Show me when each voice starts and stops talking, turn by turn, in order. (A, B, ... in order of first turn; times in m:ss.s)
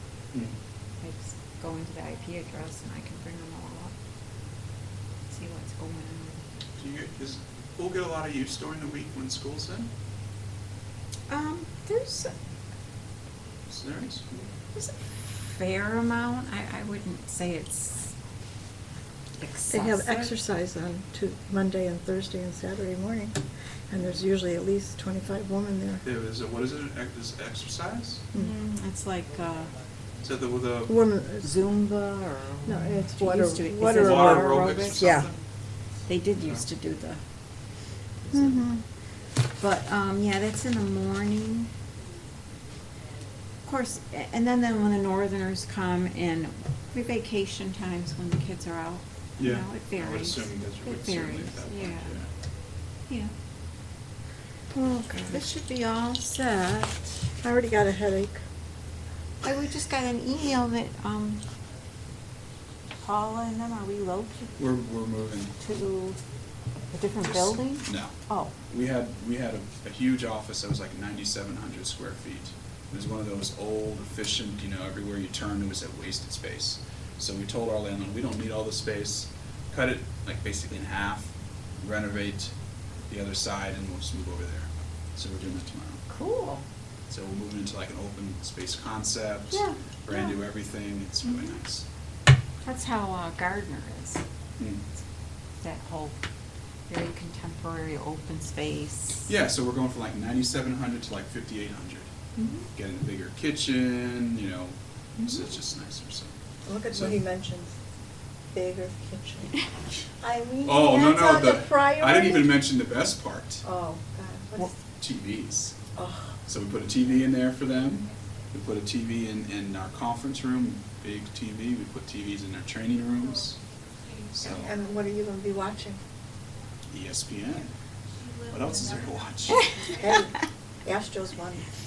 0:01.0-0:03.9 A
0:05.3-0:06.4 A
0:06.8-0:09.9 B
0:11.3-0:12.3 A
0:13.7-0:14.4 B
0:14.7-0:18.1 A
0:19.4-0:20.3 A
0:19.7-0:23.4 C
0:23.9-0:26.0 C
0:26.0-0:28.2 B
0:28.3-0:29.7 A
0:30.2-0:31.0 B
0:30.8-0:31.7 C
0:31.4-0:35.2 A
0:32.6-0:35.3 C
0:33.9-0:35.4 B
0:36.0-0:37.2 A
0:36.4-0:36.6 B
0:38.3-0:38.6 A
0:38.3-0:38.8 C
0:39.6-0:41.7 A
0:43.6-0:52.1 A
0:49.4-0:52.2 B
0:54.7-0:55.4 C
0:55.2-0:57.2 A
0:57.4-0:58.4 C
0:59.4-1:01.4 A
1:03.0-1:04.6 A
1:04.6-1:05.5 B
1:05.6-1:06.2 A
1:06.9-1:08.5 A
1:07.2-1:08.1 B
1:08.7-1:22.5 B
1:23.1-1:26.0 B
1:26.1-1:26.6 A
1:27.1-1:31.8 B
1:29.5-1:30.3 A
1:32.6-1:34.2 A
1:34.6-1:34.8 B
1:35.6-1:36.2 A
1:36.9-1:39.3 A
1:39.3-1:42.1 B
1:42.4-1:42.6 A
1:42.7-1:46.3 B
1:46.6-1:47.7 C
1:46.9-1:47.2 B
1:48.5-1:49.6 C
1:50.2-1:52.5 C
1:50.6-1:53.6 B
1:53.6-1:54.7 C
1:55.0-1:55.7 B
1:55.9-1:56.4 C
1:56.5-2:03.6 B
2:04.4-2:04.7 B
2:04.4-2:06.0 C
2:06.9-2:07.7 B
2:08.5-2:09.6 B
2:09.8-2:11.6 C